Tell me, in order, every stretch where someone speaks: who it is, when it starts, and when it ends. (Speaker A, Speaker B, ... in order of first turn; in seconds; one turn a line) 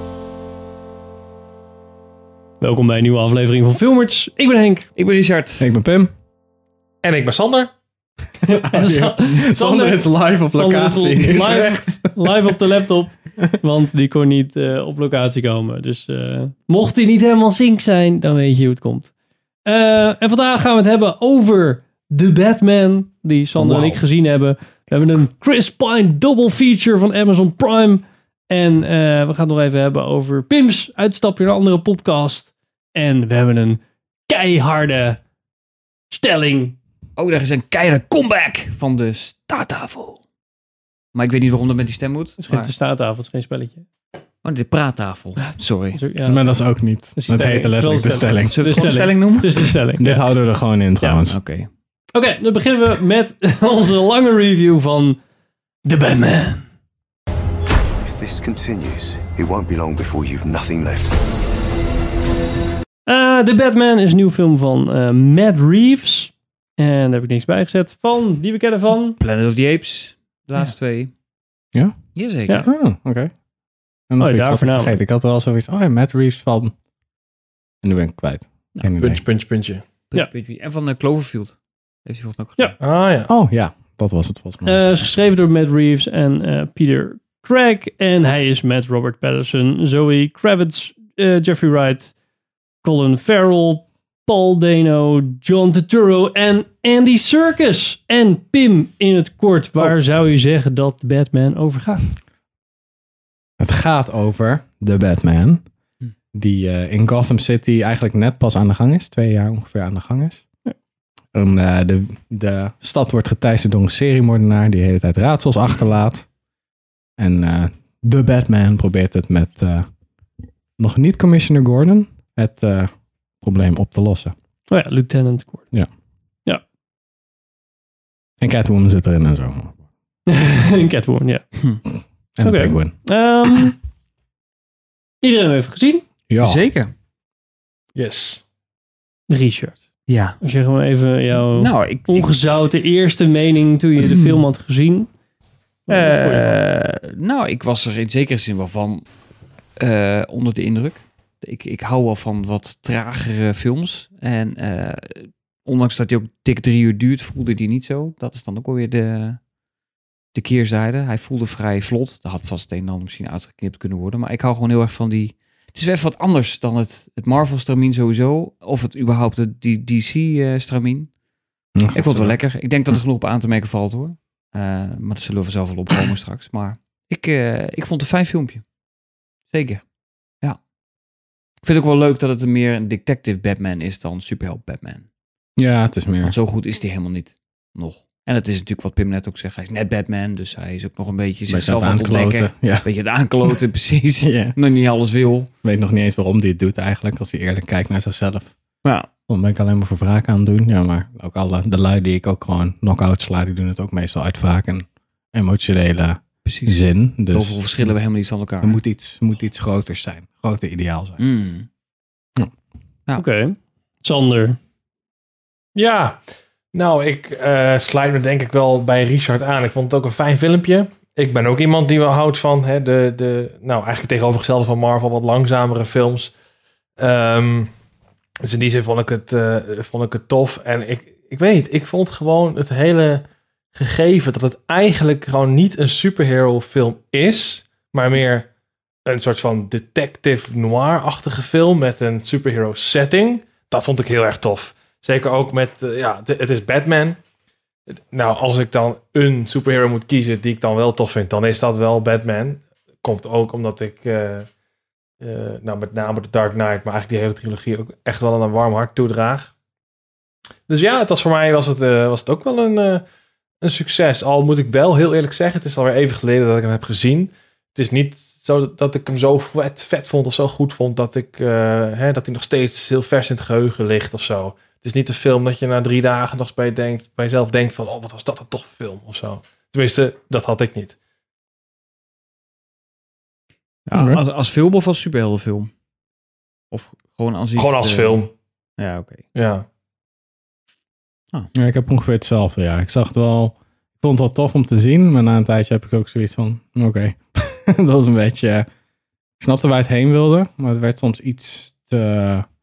Speaker A: 2.6-4.9
Speaker B: 5.0-5.7
Speaker C: 5.6-6.1
Speaker D: 7.0-7.7
Speaker C: 8.4-12.5
Speaker A: 8.7-19.1
Speaker A: 19.7-35.2
Speaker B: 23.6-24.0
Speaker A: 36.1-36.8
Speaker B: 37.2-40.2
Speaker B: 41.1-42.7
Speaker A: 42.4-43.9
Speaker B: 44.4-46.0
Speaker A: 45.4-50.2
Speaker C: 46.2-48.6
Speaker B: 48.5-49.8
Speaker C: 50.0-51.4
Speaker B: 51.3-51.7
Speaker A: 52.1-55.2
Speaker A: 55.9-56.7
Speaker E: 58.0-61.3
Speaker A: 63.1-69.2
Speaker B: 69.2-71.1
Speaker C: 71.7-73.3
Speaker B: 72.2-72.6
Speaker C: 74.1-76.7
Speaker A: 74.2-75.0
Speaker C: 77.8-79.2
Speaker D: 78.9-79.8
Speaker B: 80.1-82.6
Speaker D: 82.8-83.3
Speaker C: 83.3-84.8
Speaker A: 84.7-92.1
Speaker A: 92.8-102.1
Speaker C: 103.6-105.6
Speaker C: 106.3-110.5
Speaker C: 111.3-116.3
Speaker C: 117.2-119.9
Speaker C: 120.8-124.3
Speaker A: 124.7-125.7
Speaker C: 128.4-129.8
Speaker A: 130.3-131.4
Speaker C: 132.4-133.0
Speaker A: 132.4-133.8
Speaker A: 135.2-136.0
Speaker C: 136.3-136.7
Speaker B: 136.4-136.9
Speaker D: 137.9-138.4
Speaker A: 139.3-139.8
Speaker B: 140.1-140.4
Speaker A: 140.4-145.1
Speaker B: 141.5-142.3
Speaker A: 145.9-146.6
Speaker B: 145.9-149.1
Speaker B: 149.8-159.4
Speaker B: 160.3-171.1
Speaker C: 171.8-172.4
Speaker B: 171.9-178.6
Speaker B: 179.5-179.8
Speaker B: 181.6-185.1
Speaker C: 185.6-186.4
Speaker B: 186.2-195.5
Speaker C: 191.5-192.9
Speaker C: 194.2-194.6
Speaker C: 195.6-198.6
Speaker C: 199.3-207.9
Speaker B: 206.4-208.8
Speaker C: 208.6-211.2
Speaker B: 211.2-211.7
Speaker A: 213.2-214.6
Speaker D: 215.8-216.2
Speaker D: 216.7-226.3
Speaker D: 227.0-227.7
Speaker D: 228.4-238.5
Speaker D: 239.1-247.2
Speaker D: 247.9-254.5
Speaker D: 255.2-259.5
Speaker D: 260.7-263.0
Speaker D: 263.6-280.9
Speaker B: 283.9-285.7
Speaker C: 283.9-284.2
Speaker B: 286.7-288.2
Speaker D: 287.6-288.3
Speaker B: 288.8-289.2
Speaker D: 289.4-289.6
Speaker C: 291.5-298.7
Speaker C: 299.4-302.5